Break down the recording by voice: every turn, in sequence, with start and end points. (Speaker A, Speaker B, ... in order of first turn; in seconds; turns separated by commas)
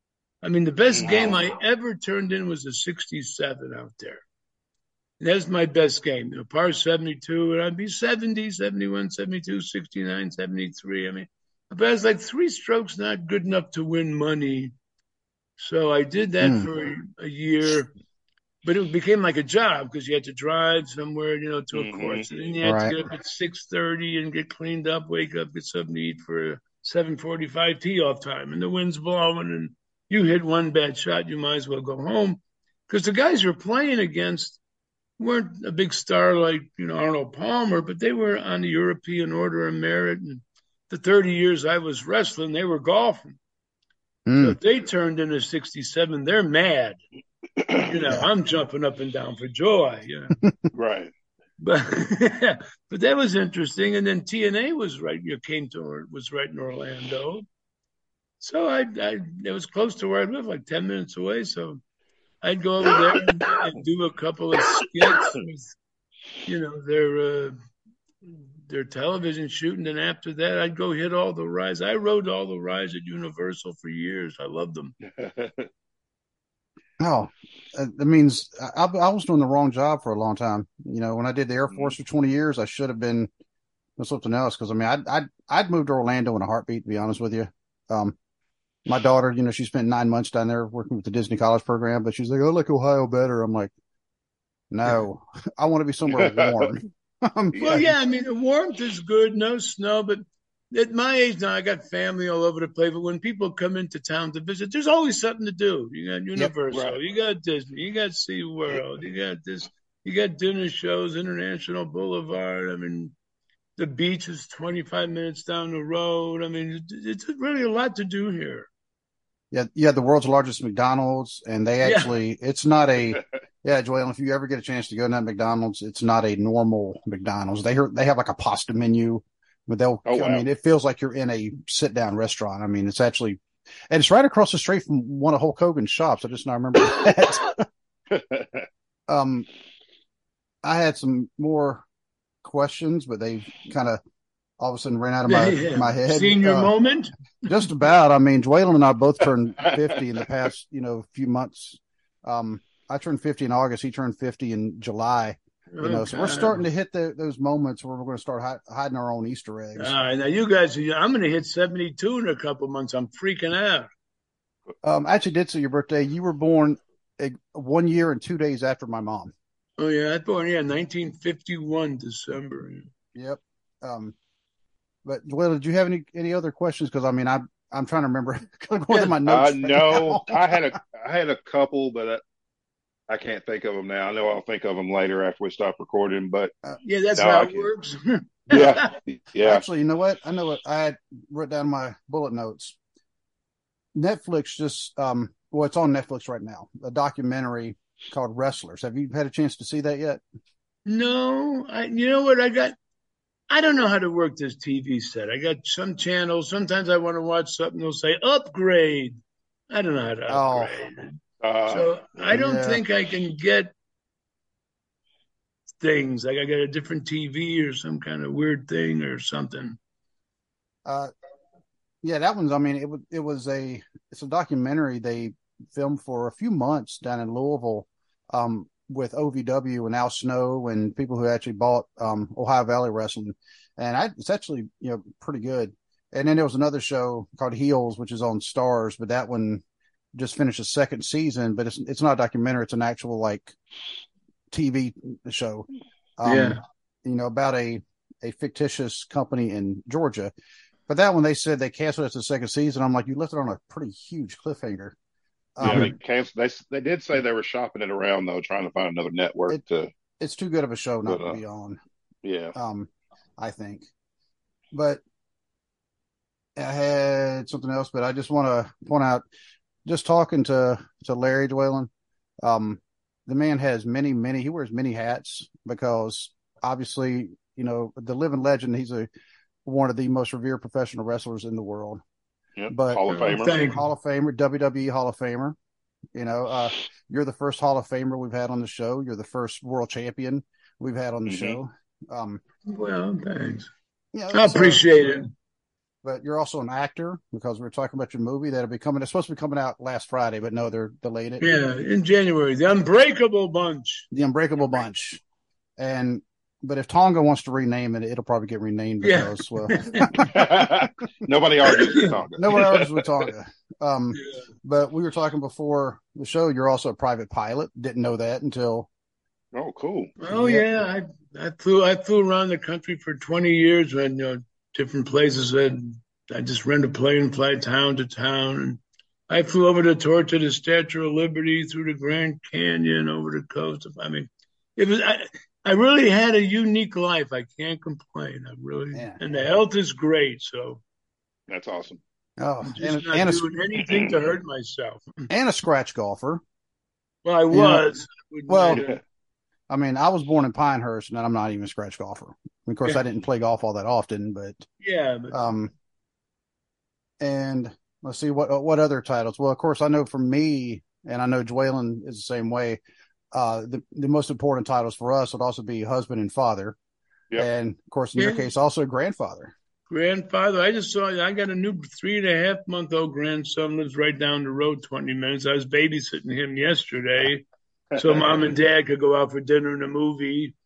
Speaker A: 0.4-4.2, Speaker B: 0.9-1.4, Speaker A: 5.2-14.7, Speaker A: 15.6-17.9, Speaker C: 16.4-16.7, Speaker A: 18.6-34.6, Speaker B: 21.7-22.2, Speaker C: 22.6-22.9, Speaker A: 35.2-43.4, Speaker C: 44.2-44.6, Speaker A: 44.4-47.0, Speaker B: 47.6-47.9, Speaker A: 47.9-50.3, Speaker C: 50.4-50.7, Speaker B: 50.7-51.1, Speaker A: 51.6-57.5, Speaker A: 58.4-61.8, Speaker A: 62.4-65.7, Speaker A: 66.4-67.5, Speaker A: 68.3-74.9, Speaker B: 75.1-75.7, Speaker C: 77.0-83.3, Speaker C: 84.0-88.2, Speaker C: 88.8-93.7, Speaker C: 94.7-97.9, Speaker B: 96.2-96.7, Speaker A: 97.6-113.1, Speaker B: 106.7-107.0, Speaker A: 113.8-118.7, Speaker C: 119.5-137.6, Speaker A: 121.8-122.1, Speaker B: 130.1-130.4, Speaker B: 138.1-138.7, Speaker C: 139.1-139.5, Speaker C: 140.6-141.8, Speaker C: 142.4-144.0, Speaker C: 144.6-146.7, Speaker A: 145.2-147.1, Speaker C: 147.5-159.9, Speaker A: 155.7-156.6, Speaker A: 159.8-163.9, Speaker C: 164.8-169.3, Speaker A: 169.8-172.9, Speaker C: 173.1-174.1, Speaker C: 175.0-180.6, Speaker A: 178.9-179.1, Speaker B: 179.2-182.2, Speaker B: 183.1-186.5, Speaker A: 186.8-188.8, Speaker B: 187.2-187.7, Speaker B: 188.5-189.6, Speaker C: 189.4-192.8, Speaker C: 193.9-200.2, Speaker A: 200.8-202.8, Speaker A: 203.5-209.2, Speaker A: 209.7-213.7, Speaker C: 210.3-210.7, Speaker B: 211.4-212.2, Speaker C: 212.3-212.8, Speaker A: 215.8-219.8, Speaker C: 220.8-221.1, Speaker C: 222.0-239.6, Speaker C: 240.1-243.5, Speaker C: 244.5-245.7, Speaker C: 246.2-250.3, Speaker A: 246.2-246.6, Speaker C: 250.9-254.9, Speaker C: 255.6-255.9, Speaker B: 255.6-259.9, Speaker C: 260.2-261.8, Speaker B: 261.1-261.4, Speaker B: 262.2-262.5, Speaker C: 262.5-263.8, Speaker C: 264.7-265.0, Speaker C: 266.6-269.2, Speaker C: 269.8-271.9, Speaker C: 272.4-279.1, Speaker C: 279.6-282.0, Speaker B: 282.6-283.6, Speaker C: 282.7-285.6, Speaker A: 283.1-283.8, Speaker C: 286.1-292.4, Speaker B: 291.3-291.6, Speaker A: 292.6-293.7, Speaker C: 294.1-294.9, Speaker A: 294.3-295.3, Speaker C: 296.0-301.6, Speaker A: 301.4-304.1, Speaker C: 304.1-305.2, Speaker C: 305.8-310.3, Speaker A: 309.0-310.3, Speaker B: 310.2-313.3, Speaker A: 311.7-312.1, Speaker C: 312.4-318.9, Speaker B: 319.5-320.1, Speaker A: 320.2-340.8, Speaker C: 320.3-320.6, Speaker C: 338.9-339.2, Speaker B: 341.5-342.0, Speaker C: 342.4-343.4, Speaker A: 342.6-345.3, Speaker C: 345.3-346.4, Speaker A: 347.2-348.9, Speaker C: 347.5-347.8, Speaker C: 348.5-348.8, Speaker C: 349.7-354.7, Speaker A: 354.8-355.5, Speaker C: 355.3-355.7, Speaker C: 357.2-362.8, Speaker C: 363.3-366.8, Speaker C: 367.4-369.5, Speaker A: 368.1-368.4, Speaker A: 369.9-377.4, Speaker B: 377.9-378.4, Speaker A: 377.9-380.5